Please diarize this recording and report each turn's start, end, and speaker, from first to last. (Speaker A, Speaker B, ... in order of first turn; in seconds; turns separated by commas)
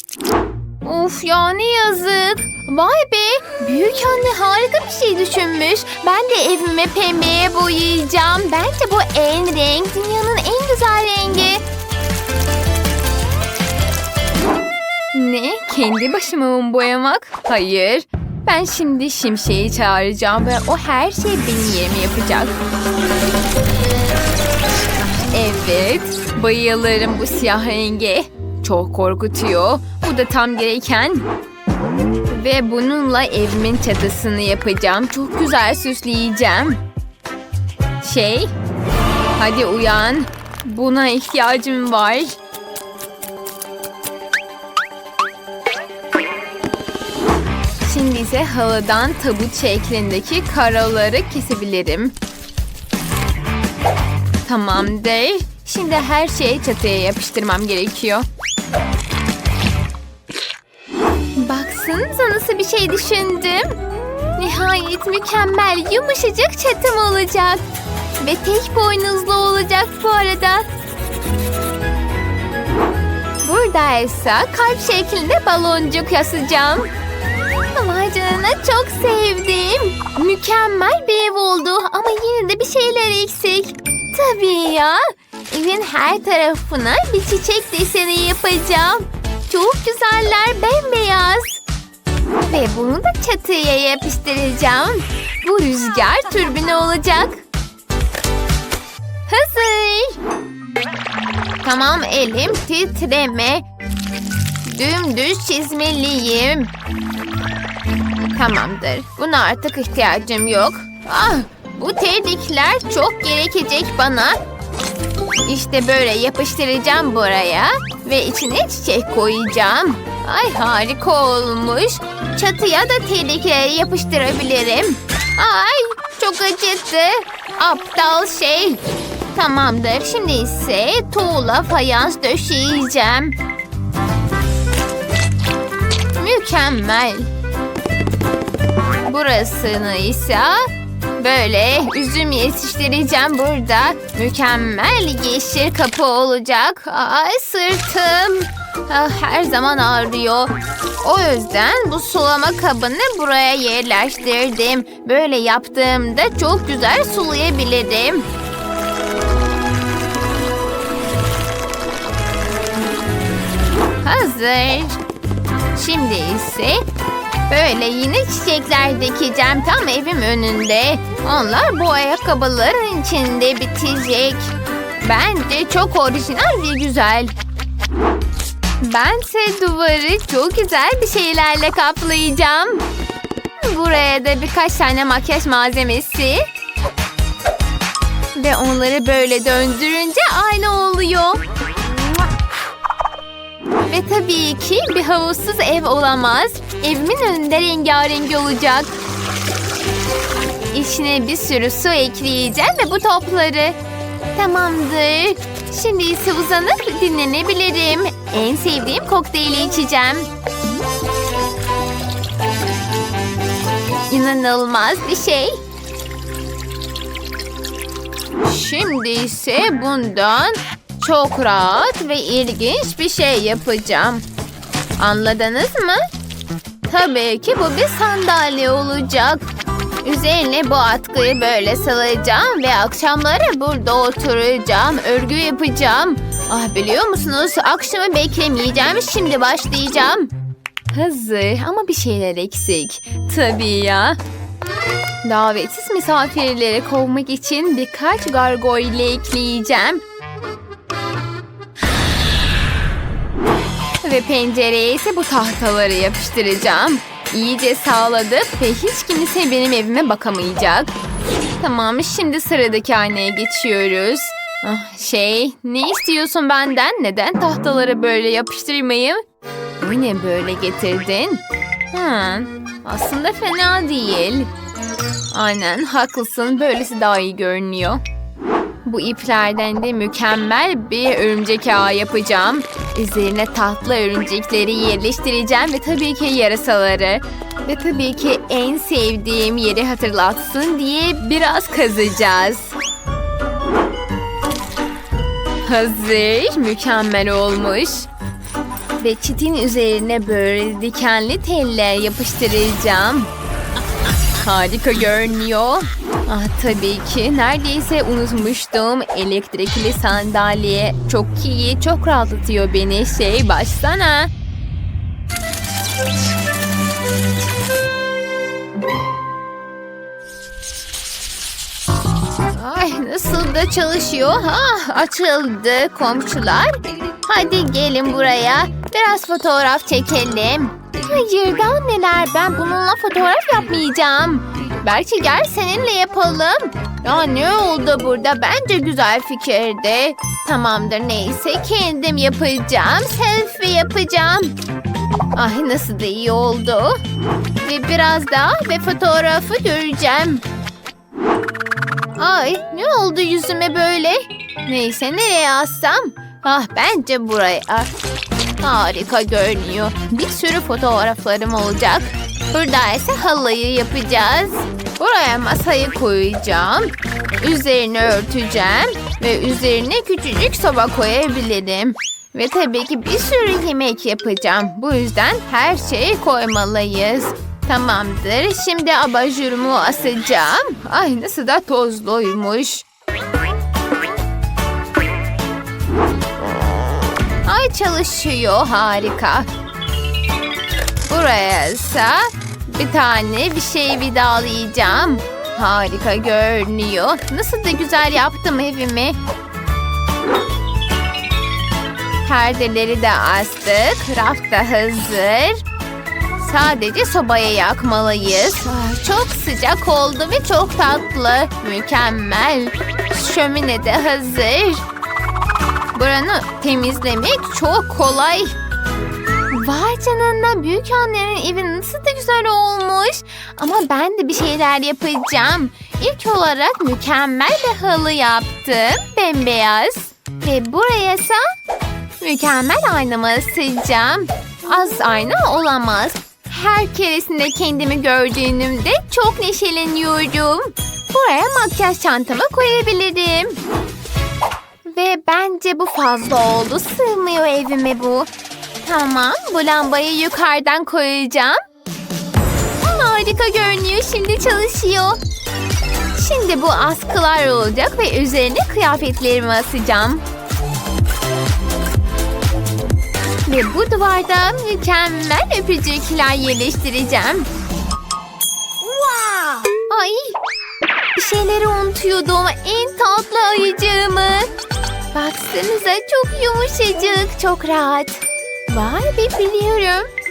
Speaker A: 0.8-11.6, Speaker A: 15.1-22.5, Speaker A: 25.0-31.3, Speaker A: 32.3-36.8, Speaker A: 38.0-38.5, Speaker A: 39.4-42.4, Speaker A: 47.8-52.1, Speaker A: 54.5-58.2, Speaker A: 61.4-63.8, Speaker A: 64.3-67.6, Speaker A: 68.2-70.7, Speaker A: 73.4-76.9, Speaker A: 77.7-91.6, Speaker A: 92.4-97.4, Speaker A: 99.3-100.2, Speaker A: 101.6-103.6, Speaker A: 104.6-106.7, Speaker A: 108.3-114.4, Speaker A: 115.5-128.8, Speaker A: 129.3-133.3, Speaker A: 136.2-137.3, Speaker A: 139.0-140.6, Speaker A: 141.2-158.3, Speaker A: 164.0-165.0, Speaker A: 165.7-166.8, Speaker A: 167.5-174.5, Speaker A: 175.0-177.3, Speaker A: 178.8-182.8, Speaker A: 183.6-186.4, Speaker A: 188.3-191.4, Speaker A: 193.9-199.0, Speaker A: 200.7-203.8, Speaker A: 204.3-210.3, Speaker A: 214.1-215.6, Speaker A: 218.4-224.2, Speaker A: 225.0-226.0, Speaker A: 226.8-229.5, Speaker A: 230.0-240.3, Speaker A: 240.9-244.2, Speaker A: 245.2-250.0, Speaker A: 254.0-260.9, Speaker A: 261.5-269.2, Speaker A: 269.8-274.5, Speaker A: 275.3-278.0, Speaker A: 278.8-292.7, Speaker A: 295.6-298.1, Speaker A: 299.0-303.3, Speaker A: 304.4-314.3, Speaker A: 322.5-344.5, Speaker A: 345.3-347.0, Speaker A: 347.6-350.4, Speaker A: 352.2-357.9, Speaker A: 358.6-382.8, Speaker A: 387.4-389.5, Speaker A: 391.1-399.2, Speaker A: 402.2-405.6, Speaker A: 406.4-414.8, Speaker A: 415.9-418.6, Speaker A: 419.5-431.4, Speaker A: 432.2-443.6, Speaker A: 444.8-448.3, Speaker A: 448.8-451.6, Speaker A: 452.8-455.2, Speaker A: 456.1-460.2, Speaker A: 463.4-467.5, Speaker A: 469.2-470.4, Speaker A: 471.1-474.5, Speaker A: 475.1-480.1